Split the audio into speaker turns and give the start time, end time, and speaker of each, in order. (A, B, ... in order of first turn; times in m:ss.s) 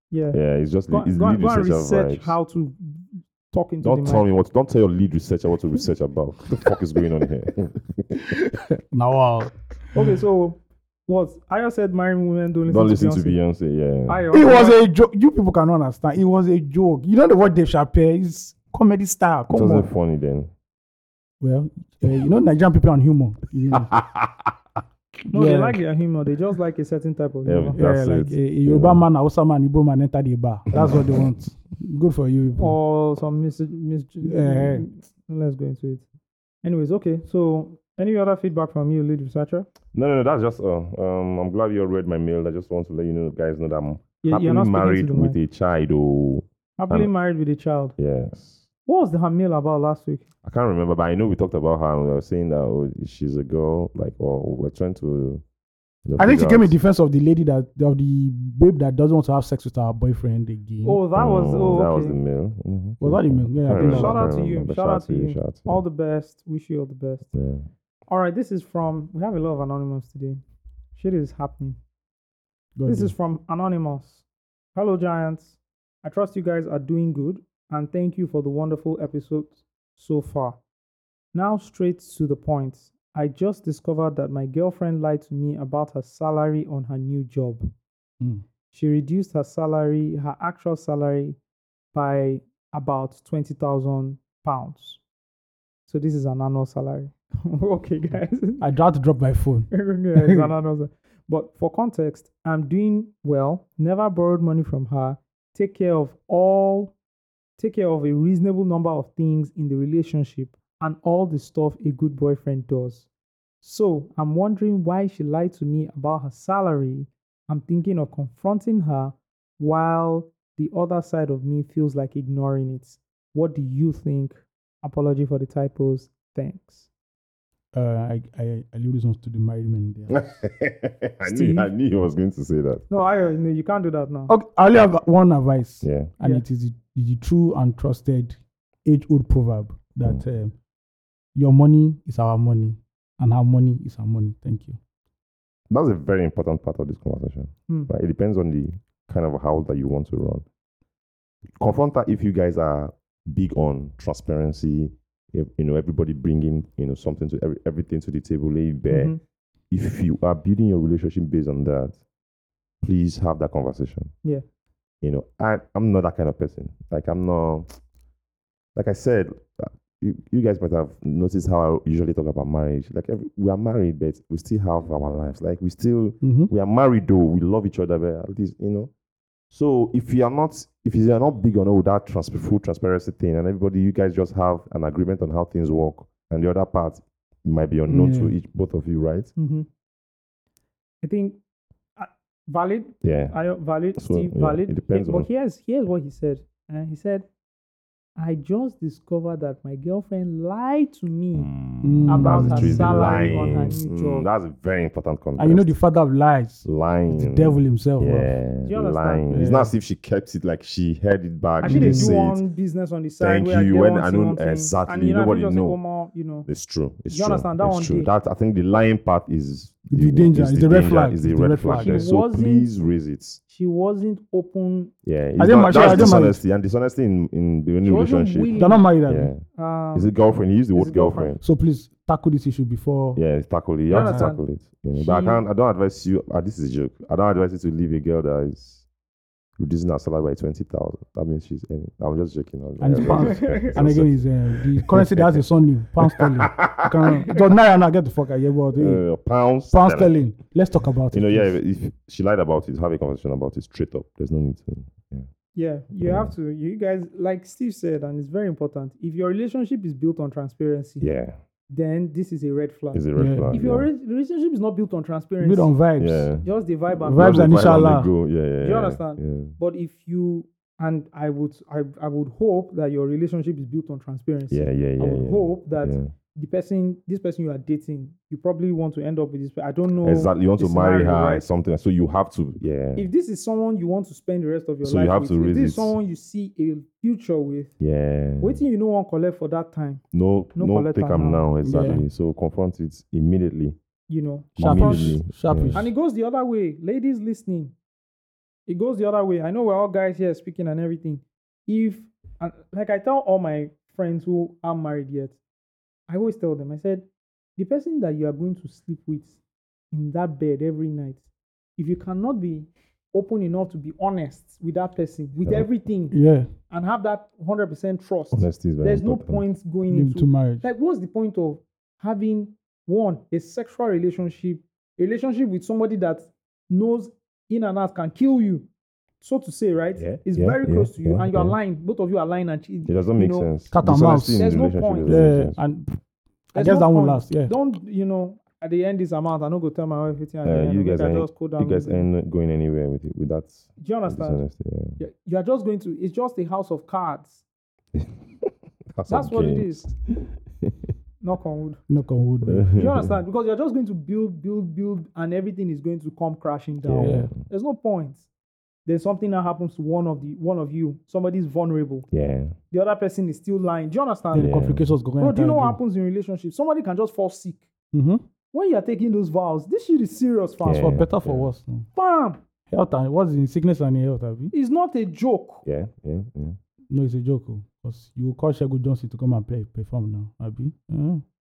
0:00.1-0:04.3 A
0:00.3-0:02.3 B
0:03.8-0:08.2 B
0:08.9-0:10.1 C
0:09.9-0:13.4 A
0:12.7-0:14.2 B
0:14.1-0:14.8 A
0:14.3-0:19.9 C
0:19.5-0:20.5 B
0:21.4-0:23.9 C
0:23.9-0:24.5 B
0:25.3-0:27.8 A
0:25.3-0:25.8 C
0:27.4-0:29.0 B
0:27.7-0:32.8 C
0:30.8-0:31.2 B
0:32.6-0:36.0 A
0:34.2-0:34.9 C
0:36.6-0:39.7 A
0:39.9-0:47.1 B
0:44.2-0:45.4 A
0:46.8-0:48.0 A
0:48.0-0:48.6 B
0:48.9-0:50.3 A
0:50.4-0:55.4 B
0:56.0-0:56.7 B
0:56.2-1:01.0 C
1:00.8-1:02.2 A
1:01.1-1:05.8 B
1:03.0-1:04.3 C
1:03.7-1:07.3 A
1:07.3-1:07.7 B
1:08.1-1:10.4 A
1:11.0-1:11.8 A
1:12.8-1:13.1 C
1:12.9-1:20.6 A
1:21.3-1:27.7 A
1:28.7-1:31.4 A
1:31.9-1:35.0 A
1:35.9-1:38.6 A
1:38.6-1:40.4 C
1:39.7-1:46.9 A
1:47.6-1:53.1 A
1:53.6-2:06.9 A
2:07.7-2:10.3 C
2:10.1-2:12.9 B
2:11.3-2:11.7 C
2:12.9-2:14.3 A
2:14.3-2:20.5 C
2:15.8-2:16.1 B
2:21.4-2:24.8 C
2:25.7-2:30.4 B
2:31.6-2:39.2 B
2:38.9-2:39.2 A
2:39.7-2:42.0 B
2:42.8-2:44.1 B
2:45.0-2:47.8 B
2:48.8-2:58.9 B
2:56.2-2:56.5 C
2:59.5-3:09.3 B
3:07.9-3:08.3 C
3:09.4-3:09.7 A
3:11.0-3:11.4 A
3:12.0-3:17.3 A
3:13.0-3:13.4 B
3:14.0-3:15.3 B
3:18.2-3:21.5 A
3:21.3-3:25.7 B
3:21.8-3:23.8 C
3:22.1-3:24.3 A
3:25.4-3:28.3 C
3:26.6-3:32.4 B
3:28.6-3:29.3 A
3:29.3-3:29.7 C
3:31.6-3:36.5 A
3:31.6-3:32.1 C
3:33.2-3:35.8 B
3:36.5-3:43.4 B
3:37.1-3:38.1 A
3:39.9-3:42.0 C
3:41.7-3:42.7 A
3:43.5-3:44.9 A
3:45.0-3:51.4 B
3:45.4-3:46.4 C
3:45.7-3:46.2 A
3:47.8-3:48.9 A
3:48.6-3:49.3 C
3:49.5-3:50.2 A
3:50.7-3:51.4 A
3:51.4-3:53.2 C
3:53.2-3:58.9 B
3:53.9-3:54.4 A
3:54.0-3:54.3 C
3:55.0-3:55.4 A
3:59.6-4:05.4 B
4:02.8-4:09.1 C
4:03.1-4:03.8 A
4:06.1-4:07.2 B
4:08.8-4:10.2 B
4:09.7-4:11.6 C
4:11.1-4:15.3 B
4:15.6-4:21.1 A
4:16.0-4:16.3 B
4:21.0-4:21.4 B
4:21.7-4:25.7 A
4:22.9-4:23.9 B
4:23.2-4:23.6 C
4:25.4-4:26.3 C
4:26.0-4:29.6 B
4:26.4-4:28.0 A
4:27.1-4:28.1 C
4:28.6-4:41.5 A
4:34.5-4:36.1 B
4:40.0-4:43.1 B
4:43.0-4:47.7 A
4:44.8-4:46.0 B
4:47.8-4:48.6 B
4:48.4-4:50.0 A
4:50.1-4:53.8 B
4:50.6-4:51.5 A
4:51.6-4:52.1 C
4:54.1-4:55.2 A
4:54.6-4:55.9 B
4:54.6-4:55.9 C
4:55.7-4:57.7 A
4:58.7-5:05.4 A
5:06.1-5:09.4 A
5:09.9-5:11.2 A
5:11.8-5:28.7 A
5:16.1-5:16.5 C
5:18.3-5:19.4 B
5:19.9-5:20.6 C
5:29.2-5:33.5 A
5:30.0-5:31.6 B
5:32.8-5:35.6 B
5:33.7-5:34.4 C
5:34.2-5:35.3 A
5:35.1-5:35.9 C
5:36.5-5:37.5 C
5:36.5-5:42.1 A
5:40.4-5:45.0 B
5:43.8-5:44.5 A
5:45.0-5:47.4 A
5:48.0-5:50.9 B
5:49.1-5:49.9 A
5:51.2-5:51.8 A
5:51.9-5:52.7 C
5:52.4-5:53.1 B
5:52.7-5:58.3 A
5:56.8-5:57.4 B
5:57.0-5:57.3 C
5:58.9-6:02.1 A
6:02.1-6:02.6 B
6:02.7-6:04.5 A
6:04.3-6:05.8 C
6:04.3-6:05.0 B
6:05.2-6:07.7 A
6:07.9-6:08.2 C
6:08.5-6:10.9 A
6:10.6-6:11.5 B
6:10.6-6:11.9 C
6:11.9-6:12.4 A
6:12.7-6:14.5 C
6:14.5-6:15.6 A
6:15.6-6:16.6 B
6:16.9-6:21.2 C